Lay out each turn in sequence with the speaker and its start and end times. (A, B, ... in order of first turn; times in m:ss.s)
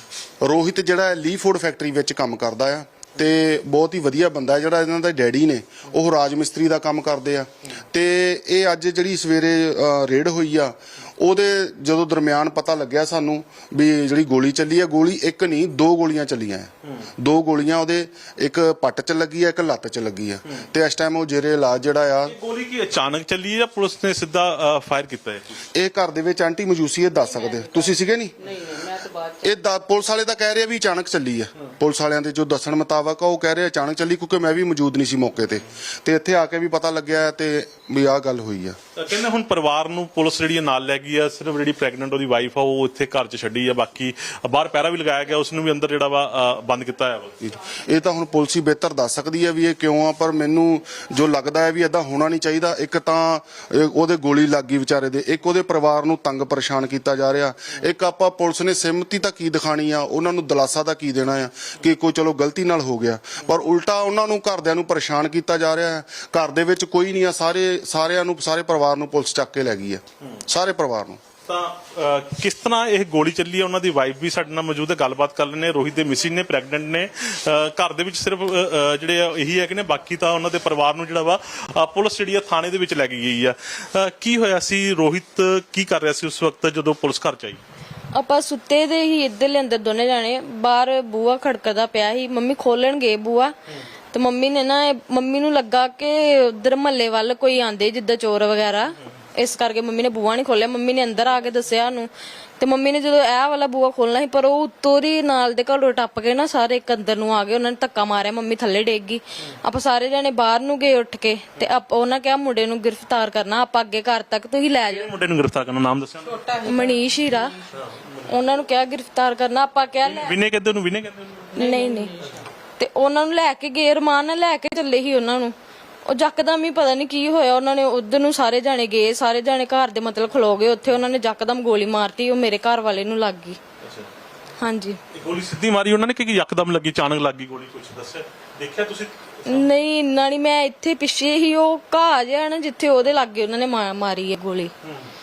0:00.4-0:22.4 A
0:22.2-0:25.6 B
0:25.7-0:28.4 A
0:27.1-0:29.6 C
0:29.4-0:38.8 A
0:39.0-0:47.3 B
0:47.4-1:11.2 A
1:11.5-1:27.6 B
1:28.1-1:33.5 D
1:34.1-1:55.1 D
1:54.8-1:56.4 B
1:56.2-1:57.8 C
1:56.6-1:57.5 D
1:57.8-1:58.4 B
1:58.3-2:00.4 D
2:00.0-2:01.5 B
2:01.5-2:02.5 C
2:01.6-2:02.1 D
2:02.8-2:05.5 D
2:06.1-2:13.6 D
2:13.8-2:14.1 B
2:14.6-2:15.0 D
2:15.1-2:19.7 B
2:19.5-2:24.7 D